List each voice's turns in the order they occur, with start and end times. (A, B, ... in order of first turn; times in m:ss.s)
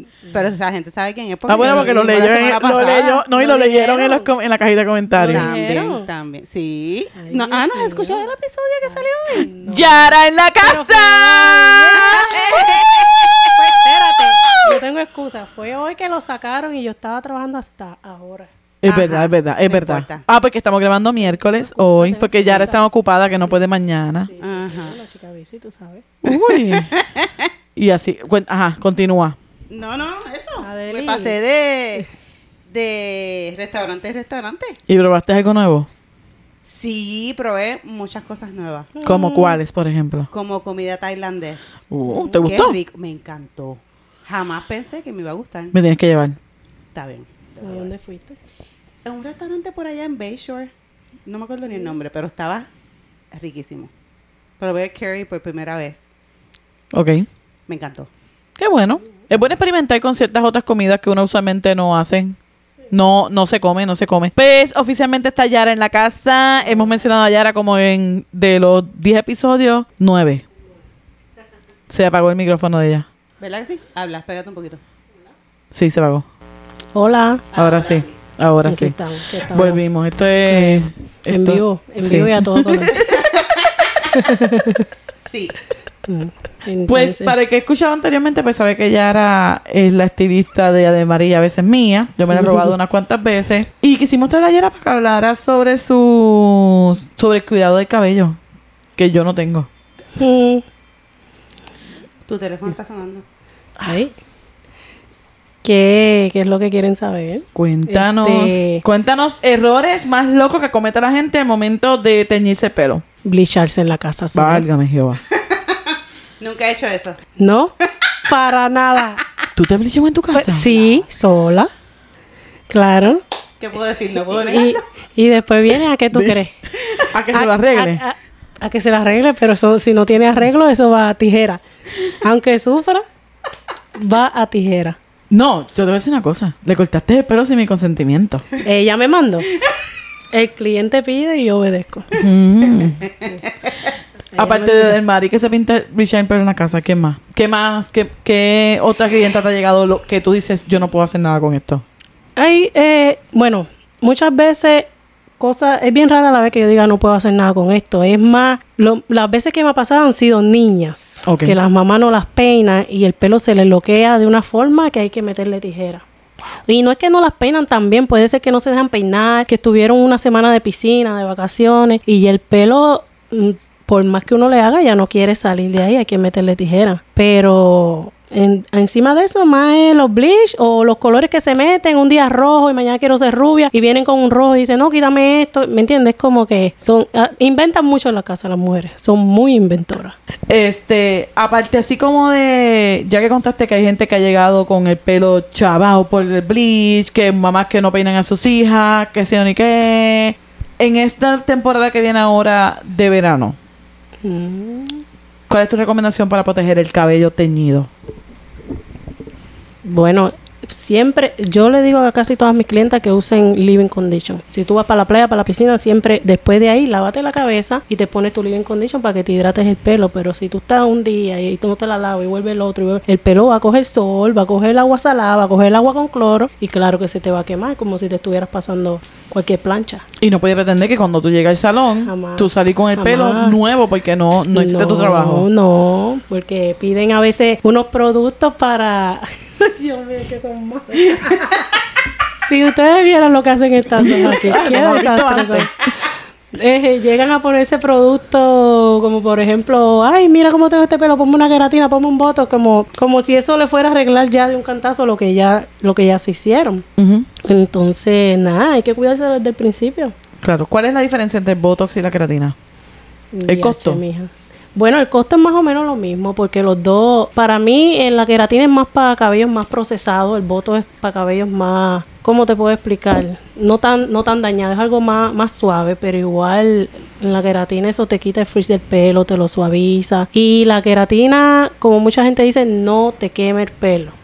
0:00.3-0:03.2 A
0:01.5-0:05.5 B
0:01.6-0:01.9 C
0:03.3-0:04.3 C
0:05.1-0:06.0 C
0:05.3-0:09.5 A
0:07.1-0:08.3 C
0:08.8-0:12.8 C
0:09.4-0:12.4 B
0:12.0-0:13.3 A
0:13.5-0:18.5 C
0:18.8-0:24.3 B
0:18.9-0:20.2 A
0:21.2-0:22.8 C
0:23.4-0:26.0 C
0:24.4-0:25.0 A
0:26.2-0:27.0 B
0:26.3-0:27.5 A
0:27.8-0:29.4 B
0:29.7-0:32.1 A
0:30.6-0:31.4 C
0:32.7-0:34.8 A
0:34.9-0:35.9 B
0:36.6-0:38.9 A
0:39.0-0:39.6 C
0:39.0-0:40.3 B
0:40.3-0:41.7 A
0:41.9-0:42.8 B
0:42.1-0:42.4 C
0:42.4-0:45.7 A
0:45.7-0:46.4 B
0:46.9-0:47.9 A
0:47.6-0:48.4 C
0:49.0-0:50.7 A
0:51.2-0:52.7 A
0:53.3-0:53.9 A
0:54.6-0:56.0 A
0:56.9-0:57.3 B
0:57.7-0:58.1 A
0:58.6-1:02.4 B
1:02.9-1:10.4 B
1:11.9-1:13.0 B
1:13.4-1:14.8 A
1:15.7-1:16.2 B
1:16.9-1:17.5 C
1:17.5-1:18.1 A
1:17.5-1:23.1 B
1:18.6-1:19.8 C
1:20.5-1:23.0 C
1:23.1-1:23.8 A
1:24.1-1:24.9 C
1:25.2-1:25.5 A
1:26.0-1:27.3 C
1:26.9-1:38.4 B
1:32.3-1:32.7 C
1:39.0-1:39.7 B
1:40.2-1:40.6 C
1:42.2-1:43.2 A
1:43.8-1:44.1 C
1:45.6-1:48.8 C
1:47.5-1:53.0 B
1:53.2-1:54.7 C
1:54.3-1:55.2 B
1:55.3-1:55.8 A
1:56.4-1:57.2 A
1:57.4-1:57.7 C
1:58.2-1:59.2 C
1:59.6-2:00.6 B
2:00.3-2:01.7 C
2:00.6-2:01.0 A
2:02.7-2:03.2 C
2:03.6-2:04.8 A
2:04.3-2:06.5 C
2:06.1-2:06.4 B
2:07.1-2:08.0 B
2:07.3-2:13.0 C
2:14.0-2:15.0 C
2:15.3-2:18.4 B
2:18.6-2:19.5 C
2:20.3-2:22.1 C
2:22.2-2:23.0 B
2:24.3-2:25.0 C
2:24.4-2:31.8 B
2:32.4-2:34.9 C
2:35.4-2:46.0 C
2:41.2-2:41.5 B
2:46.7-3:10.2 C
3:10.5-3:23.6 B
3:24.2-3:25.0 C
3:25.5-3:27.9 B
3:29.8-3:50.0 C
3:50.2-3:55.4 B
3:52.0-3:53.6 C
3:54.5-4:01.6 C
4:02.4-4:05.7 C
4:04.0-4:05.7 B
4:06.5-4:16.8 C
4:17.0-4:17.3 B
4:17.4-4:20.1 C
4:20.4-4:22.5 B
4:23.3-4:44.1 C
4:23.5-4:24.0 B